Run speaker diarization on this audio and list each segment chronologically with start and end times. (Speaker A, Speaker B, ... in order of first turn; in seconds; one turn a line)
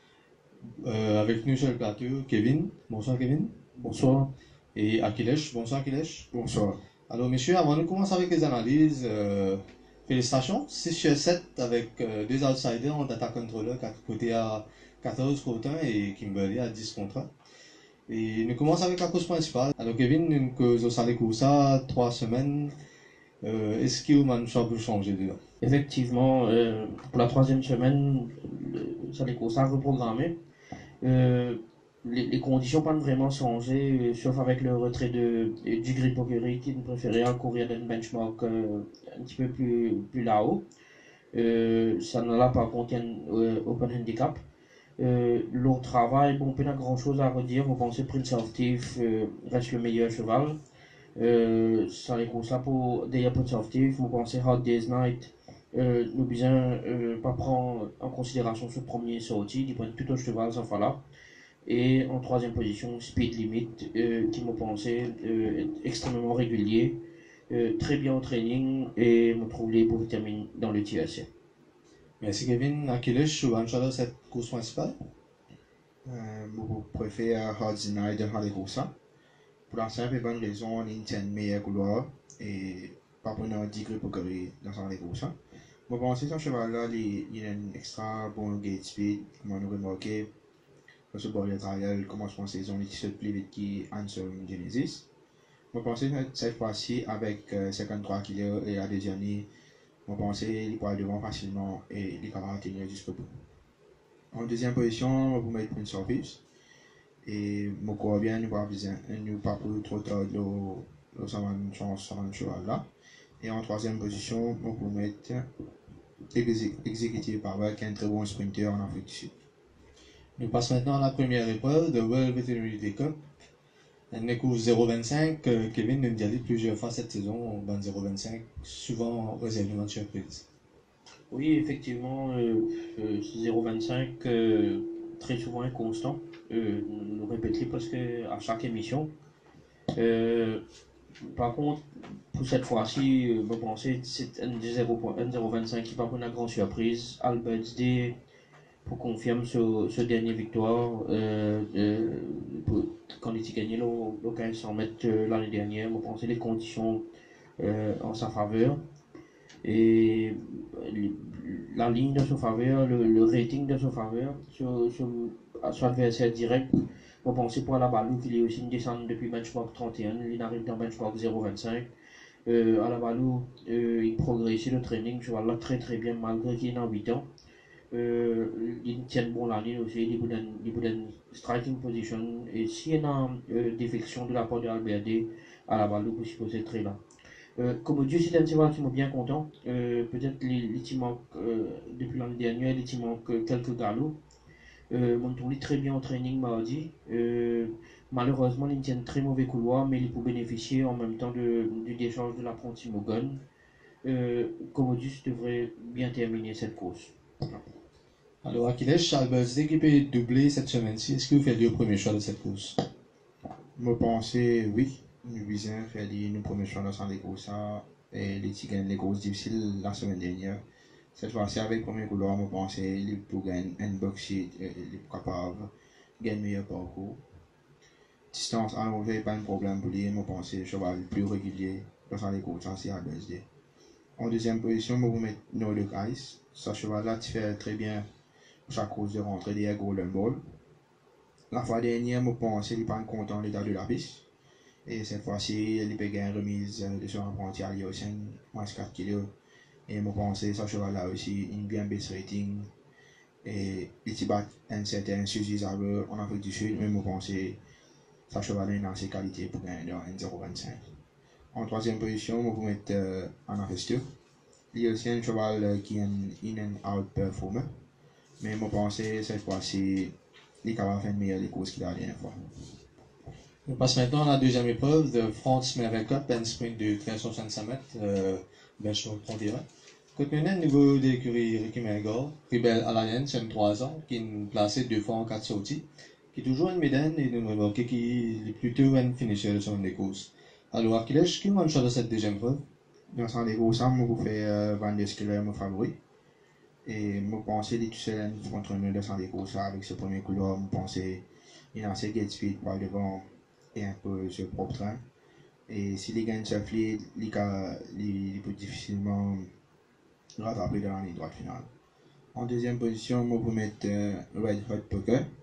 Speaker A: 0.8-3.6
Speaker B: 3.8-4.3
Speaker A: 4.8-6.3
Speaker C: 6.3-6.8
Speaker A: 7.1-17.3
Speaker A: 18.1-22.8
Speaker A: 23.4-25.4
Speaker B: 25.6-30.4
Speaker B: 31.0-40.6
Speaker B: 41.3-44.4
Speaker B: 45.0-50.6
Speaker B: 51.2-61.0
Speaker B: 61.6-71.3
Speaker A: 72.2-75.0
Speaker C: 76.0-78.9
Speaker C: 79.7-85.3
Speaker C: 85.9-90.3
Speaker C: 91.1-95.1
Speaker C: 95.7-99.5
Speaker C: 100.1-103.4
Speaker C: 104.3-106.4
Speaker C: 107.2-112.9
Speaker C: 113.4-115.5
Speaker C: 116.3-119.3
Speaker A: 120.4-123.2
Speaker A: 124.1-130.4
Speaker B: 131.3-139.1
Speaker B: 139.9-140.6
Speaker B: 141.2-148.2
Speaker B: 148.8-157.0
Speaker B: 157.6-158.8
Speaker B: 159.6-166.7
Speaker B: 167.2-171.9
Speaker B: 172.5-177.3
Speaker B: 177.9-187.0
Speaker B: 187.6-194.2
Speaker B: 194.9-203.4
Speaker B: 204.0-207.1
Speaker A: 208.4-212.8
Speaker C: 213.8-220.6
Speaker C: 221.2-227.2
Speaker C: 228.3-233.5
Speaker C: 234.2-238.1
Speaker C: 238.7-240.4
Speaker C: 241.5-244.2
Speaker C: 244.9-249.3
Speaker C: 249.9-252.7
Speaker C: 253.4-257.6
Speaker C: 258.3-260.9
Speaker C: 261.5-264.0
Speaker C: 264.7-267.7
Speaker C: 268.4-272.7
Speaker A: 273.7-279.6
Speaker A: 280.1-292.6
Speaker C: 293.1-296.0
Speaker C: 296.9-305.0
Speaker C: 305.7-309.5
Speaker C: 310.4-311.7
Speaker C: 312.3-315.3